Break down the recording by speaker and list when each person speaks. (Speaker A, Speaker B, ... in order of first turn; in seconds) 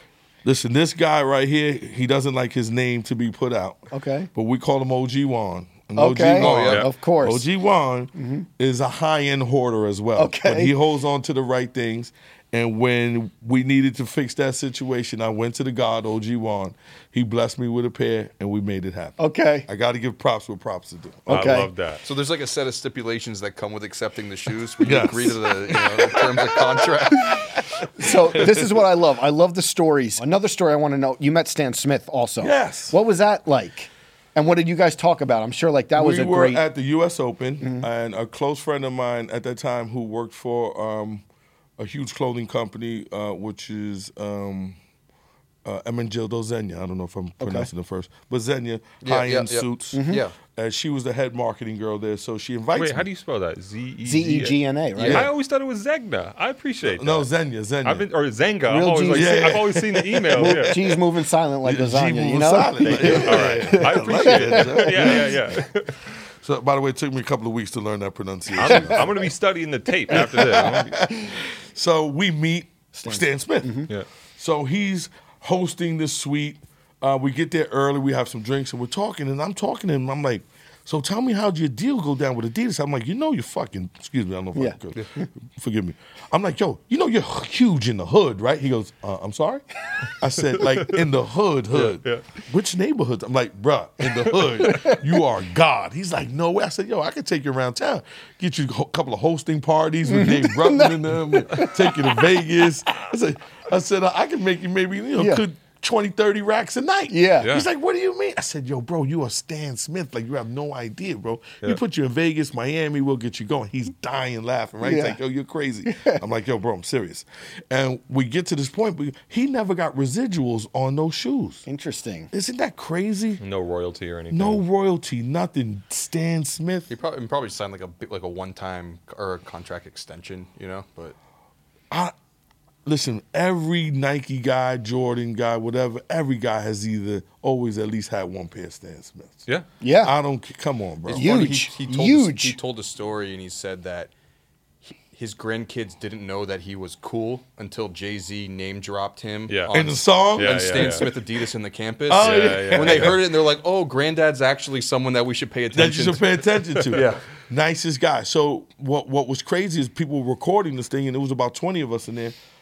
Speaker A: 0.4-21.6, 24.8-28.8, 32.4-33.0, 35.9-41.2, 41.8-44.8, 45.6-53.1, 55.0-55.3, 56.8-58.0, 59.1-60.8, 61.6-65.6, 66.4-69.3, 70.1-121.6, 122.3-123.4, 124.3-126.9, 132.8-139.4, 140.0-141.5, 149.7-151.2, 152.1-153.2, 155.7-162.3
Speaker B: 3.9-4.3, 6.0-7.5, 8.1-8.5, 10.2-10.7, 19.2-19.7, 21.3-21.7, 28.0-36.6, 37.6-37.9, 47.4-47.7, 49.9-50.2, 54.0-55.2, 58.6-59.6, 60.3-65.3, 68.7-69.1, 70.1-70.8, 72.9-73.9, 84.5-85.3, 94.6-95.0, 100.0-102.4, 105.2-105.4, 107.1-107.5, 114.8-115.2, 115.8-116.2, 121.7-122.3, 139.8-140.1, 141.1-142.6
Speaker C: 6.3-6.8, 22.0-27.5, 49.0-50.4, 55.0-55.2, 126.9-131.1, 141.1-144.1, 144.8-156.2, 156.9-157.2
Speaker D: 6.5-6.9, 21.3-22.0, 52.7-57.3, 57.8-60.9, 62.8-66.1, 68.5-71.0, 90.4-91.0, 91.7-92.2, 107.4-107.7, 123.4-124.6, 149.5-149.8, 150.3-151.1, 152.2-153.2, 156.9-157.2